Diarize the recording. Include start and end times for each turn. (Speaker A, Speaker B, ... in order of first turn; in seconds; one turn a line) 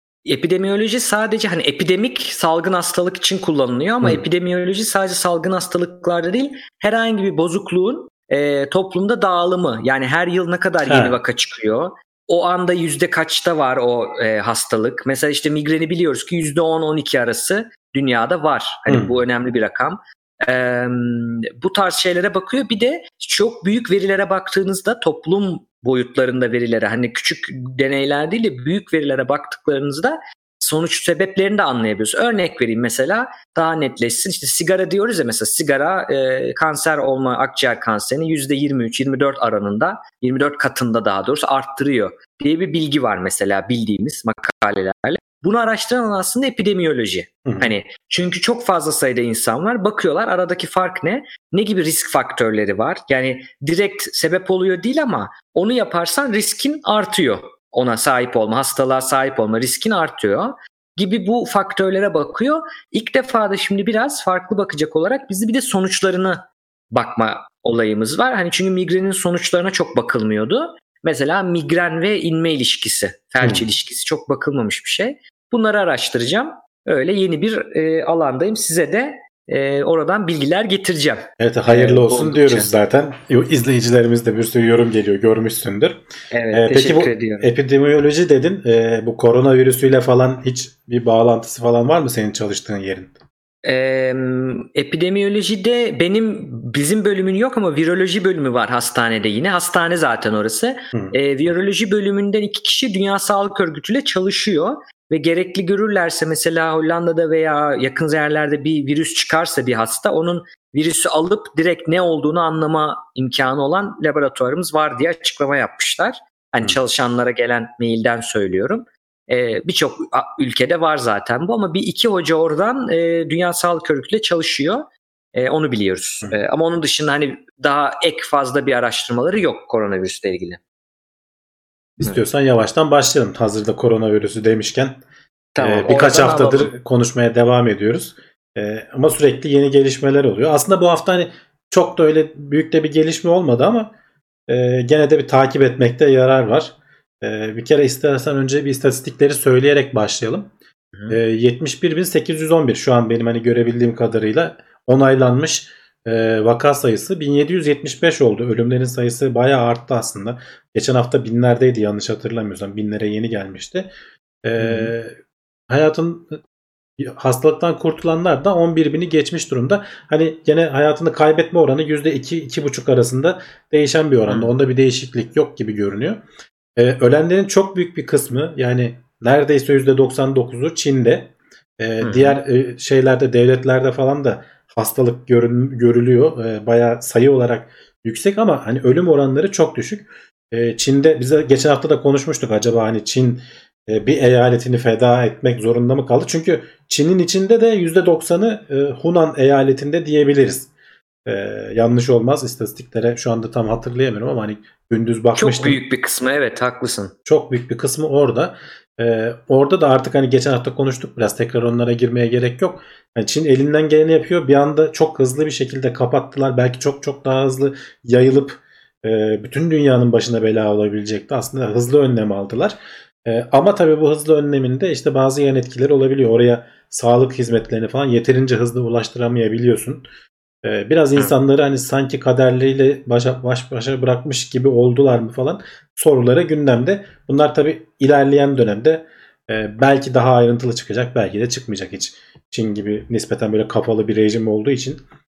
Speaker A: 0.3-82.7
Speaker B: 10.9-11.2
Speaker B: 18.9-19.2
Speaker B: 47.5-47.7
Speaker B: 73.4-73.7
Speaker B: 81.4-93.1
Speaker A: 86.3-87.5
Speaker A: 93.6-130.6
Speaker B: 132.0-135.0
Speaker A: 135.6-136.7
Speaker B: 135.6-143.9
Speaker B: 144.5-150.5
Speaker B: 151.1-163.9
Speaker B: 164.4-165.2
Speaker A: 164.6-164.9
Speaker B: 165.7-166.4
Speaker B: 167.0-176.2
Speaker A: 174.3-174.5
Speaker B: 176.8-200.7
Speaker A: 182.0-182.4
Speaker B: 201.3-205.8
Speaker A: 205.3-207.1
Speaker B: 207.3-230.1
Speaker B: 230.6-245.0